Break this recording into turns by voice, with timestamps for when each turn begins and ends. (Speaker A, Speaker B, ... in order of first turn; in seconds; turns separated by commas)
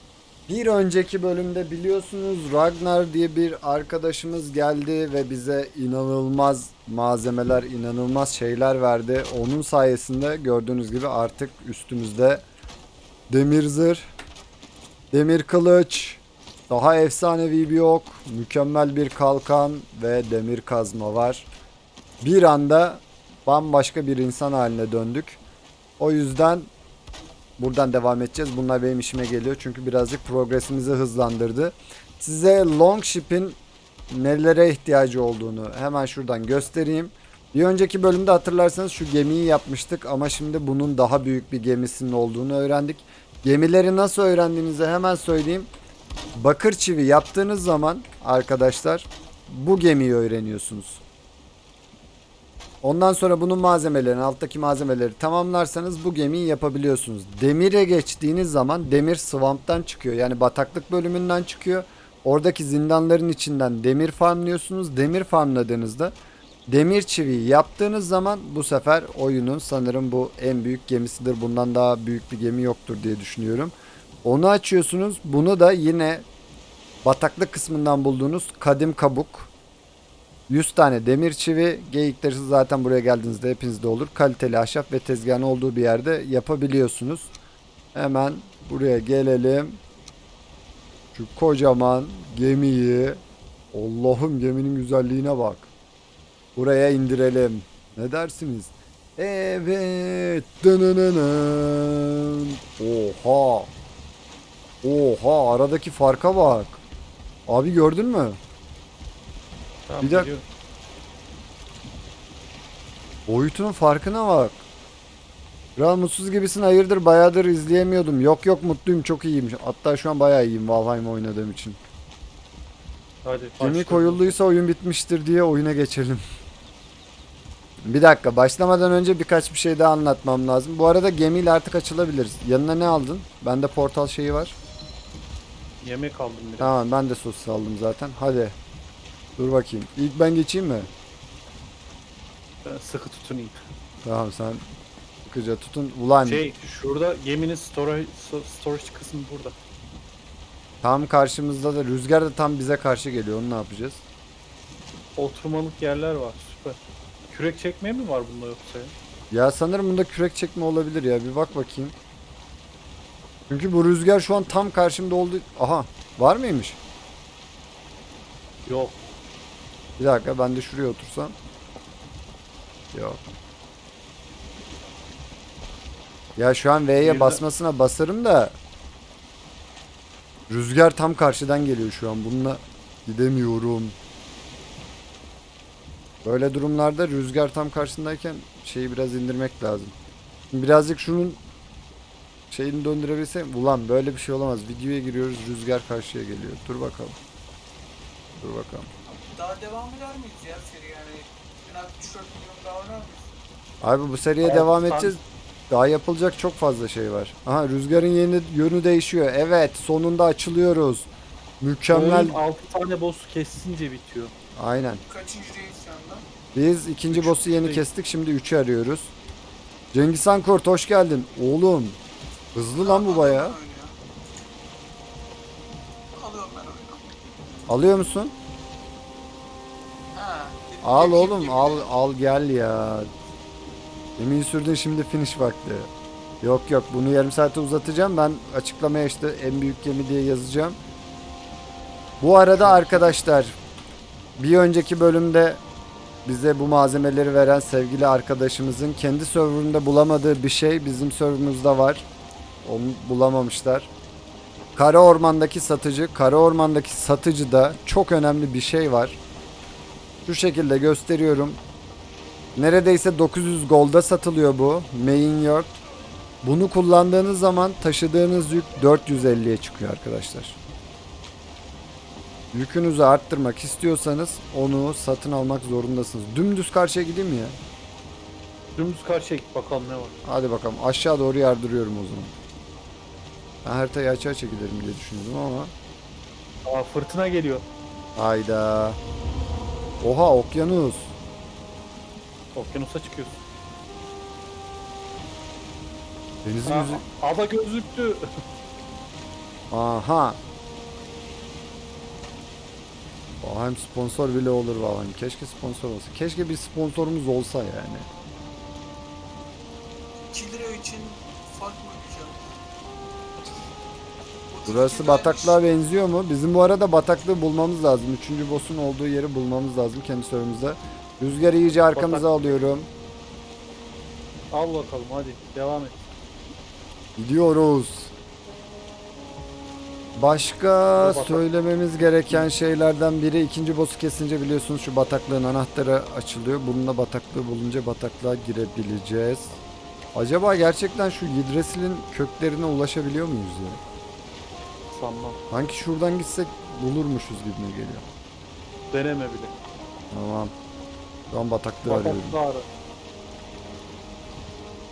Speaker A: 0.5-12.4, Speaker A: 13.3-14.0, Speaker A: 15.1-21.5, Speaker A: 22.2-25.4, Speaker A: 26.0-26.7, Speaker A: 27.6-33.6, Speaker A: 34.1-45.7, Speaker A: 46.4-51.0, Speaker A: 52.8-66.1, Speaker A: 66.7-76.2, Speaker A: 77.0-79.5, Speaker A: 80.5-87.3, Speaker A: 87.9-89.8, Speaker A: 91.1-93.2, Speaker A: 93.7-95.7, Speaker A: 96.5-103.7, Speaker A: 104.8-106.8, Speaker A: 107.5-108.4, Speaker B: 109.9-110.4, Speaker A: 110.0-110.3, Speaker A: 113.3-114.6, Speaker A: 115.8-121.8, Speaker B: 123.2-124.3, Speaker A: 123.6-126.2, Speaker A: 127.8-134.6, Speaker B: 135.8-136.7, Speaker A: 136.6-138.5, Speaker A: 139.4-140.9, Speaker B: 142.6-143.6, Speaker A: 144.0-144.7, Speaker A: 145.2-146.4, Speaker B: 146.2-149.5, Speaker A: 150.8-154.0, Speaker B: 155.2-156.8, Speaker B: 157.3-158.9, Speaker A: 159.3-161.9, Speaker A: 163.5-166.8, Speaker B: 168.7-169.0, Speaker A: 170.0-171.3, Speaker A: 172.9-173.2, Speaker A: 176.4-178.5, Speaker B: 177.0-177.4, Speaker A: 180.5-183.9, Speaker A: 186.2-189.9, Speaker A: 190.5-191.4, Speaker A: 192.5-197.2, Speaker A: 198.4-198.9, Speaker C: 199.1-203.3, Speaker A: 203.8-211.1, Speaker B: 204.4-205.1, Speaker A: 211.6-212.4, Speaker B: 211.9-214.3, Speaker A: 214.6-215.0, Speaker C: 215.1-216.2, Speaker A: 216.5-219.1, Speaker B: 217.1-217.8, Speaker A: 219.9-222.0, Speaker A: 222.5-223.6, Speaker C: 222.8-223.9, Speaker C: 226.2-227.0, Speaker A: 227.7-228.3, Speaker C: 230.1-231.9, Speaker A: 230.8-233.1, Speaker A: 234.2-235.9, Speaker A: 236.4-240.8, Speaker A: 242.2-243.6, Speaker B: 242.6-243.1, Speaker A: 244.4-245.6, Speaker A: 246.2-252.1, Speaker A: 252.6-253.9, Speaker A: 254.8-259.2, Speaker A: 260.2-261.6, Speaker A: 262.6-265.8, Speaker A: 266.4-270.6, Speaker A: 272.5-277.6, Speaker B: 278.8-280.1, Speaker A: 280.2-282.3, Speaker A: 283.6-285.7, Speaker B: 286.6-287.6, Speaker A: 288.1-289.0, Speaker A: 290.0-291.1, Speaker B: 292.5-293.4, Speaker A: 296.4-297.0, Speaker B: 296.6-298.3, Speaker A: 299.7-300.4, Speaker A: 303.4-308.1, Speaker C: 310.3-312.4, Speaker C: 314.5-315.6, Speaker A: 314.6-322.9, Speaker B: 321.9-322.4, Speaker B: 324.5-325.9, Speaker A: 327.2-328.1, Speaker A: 330.1-339.6, Speaker B: 331.0-331.4, Speaker A: 340.1-343.8, Speaker B: 344.9-345.4, Speaker A: 345.5-348.1, Speaker B: 348.9-349.5, Speaker A: 350.1-350.5, Speaker A: 351.3-352.4, Speaker B: 351.9-352.6